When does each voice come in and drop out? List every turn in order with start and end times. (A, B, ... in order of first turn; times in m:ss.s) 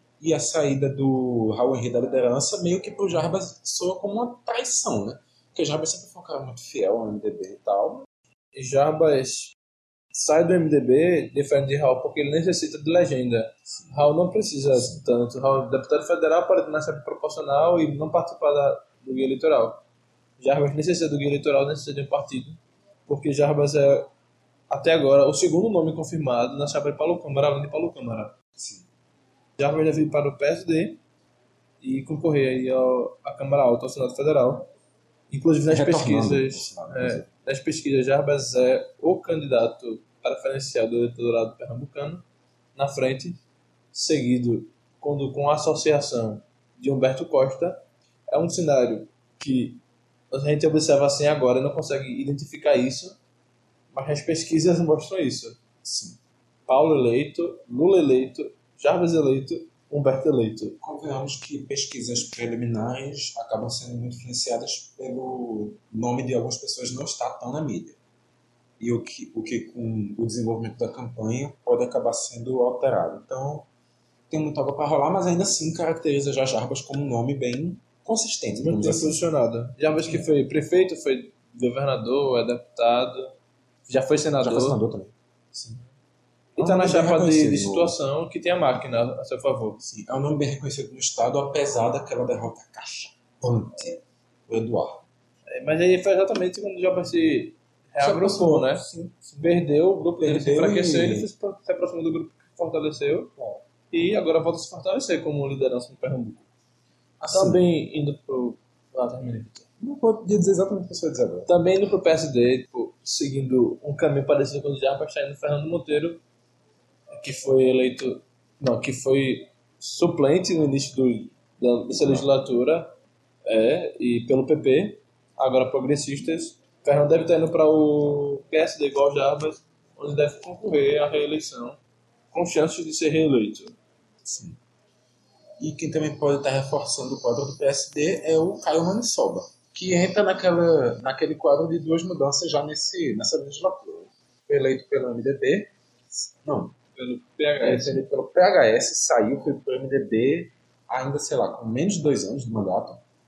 0:00.2-0:08.1 A
0:08.6-0:09.5 B
0:10.1-0:19.8 B
0:13.6-0:14.0 A
0:14.7-0:15.0 A
0:20.4-0:24.1 B
0:24.7-0:28.4 B
0:28.6-0:28.8 A
0:29.6-0:31.0 B
0:31.8-0:34.7 B
0:35.3-0:42.2 B
0:35.7-0:37.3 A
0:42.8-0:43.4 B
0:43.9-0:53.2 B
0:53.9-0:55.6 B
0:55.8-0:56.2 A
0:56.7-1:00.8 B
1:00.8-1:08.0 A
1:08.8-1:13.7 A
1:14.3-1:19.2 A
1:18.6-1:23.4 B
1:20.0-1:20.2 A
1:23.9-1:24.8 B
1:24.4-1:25.8 A
1:26.6-1:29.8 B
1:26.6-1:28.0 A
1:29.8-1:35.0 A
1:35.5-1:43.4 B
1:38.0-1:39.2 A
1:40.2-1:41.3 A
1:43.9-1:46.5 B
1:47.2-1:47.6 A
1:47.3-1:49.7 B
1:49.8-1:51.5 A
1:51.5-1:56.2 B
1:57.1-2:03.0 B
2:02.0-2:02.3 A
2:03.5-2:11.8 B
2:12.3-2:13.8 B
2:14.2-2:14.6 A
2:15.6-2:26.8 A
2:27.0-2:28.0 B
2:27.6-2:33.0 A